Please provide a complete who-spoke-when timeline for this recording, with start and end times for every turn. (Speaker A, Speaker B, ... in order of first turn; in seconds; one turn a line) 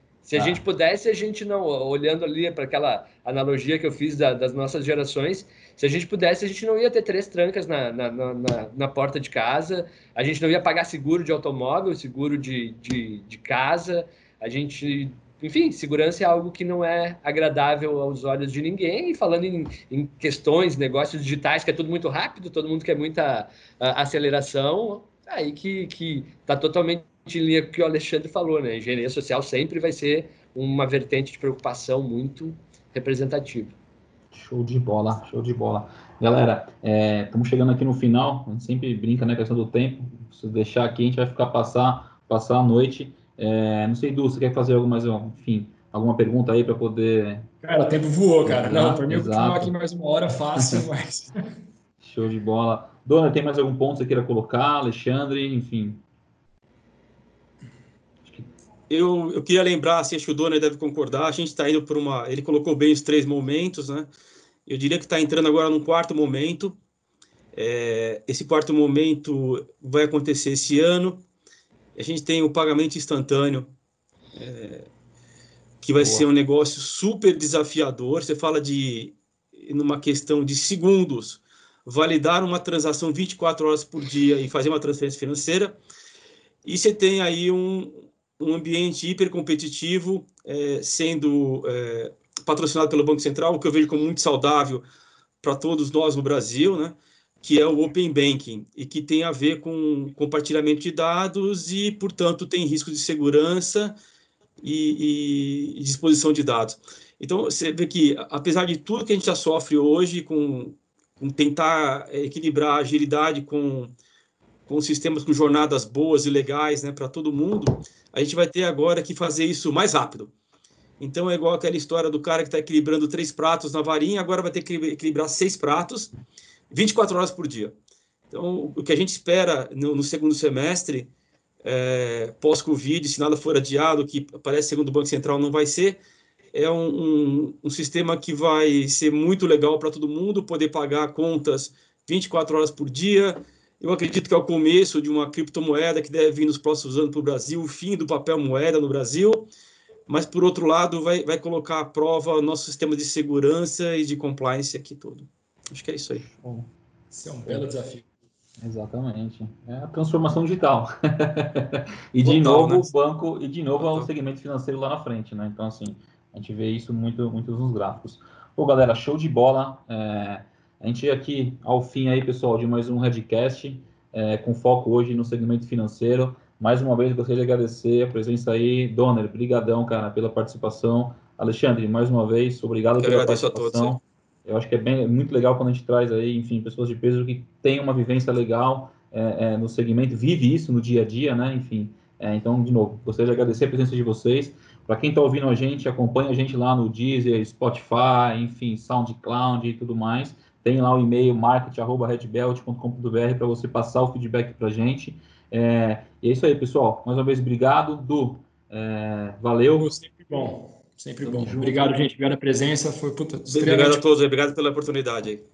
Speaker A: 0.2-33.7
Speaker B: 0.3-0.6
Speaker B: 34.3-47.5
Speaker C: 47.6-51.4
Speaker B: 48.4-49.7
Speaker B: 52.0-56.0
Speaker B: 58.2-58.5
Speaker D: 58.9-64.1
Speaker D: 64.7-66.8
Speaker D: 67.5-71.2
Speaker D: 72.0-73.7
Speaker D: 74.3-74.9
Speaker D: 75.8-85.8
Speaker B: 76.0-76.3
Speaker D: 86.6-94.8
Speaker D: 95.4-104.0
Speaker D: 104.6-113.9
Speaker D: 114.7-120.3
Speaker D: 121.0-126.1
Speaker D: 126.7-127.7
Speaker D: 128.3-131.1
Speaker D: 131.6-136.0
Speaker D: 136.5-149.5
Speaker D: 150.1-156.2
Speaker B: 156.2-156.7
Speaker C: 157.1-158.0
Speaker B: 158.6-209.9
Speaker D: 162.2-162.9
Speaker D: 163.8-164.1
Speaker D: 183.0-184.0
Speaker C: 209.7-214.0
Speaker B: 211.2-212.0
Speaker D: 213.5-215.4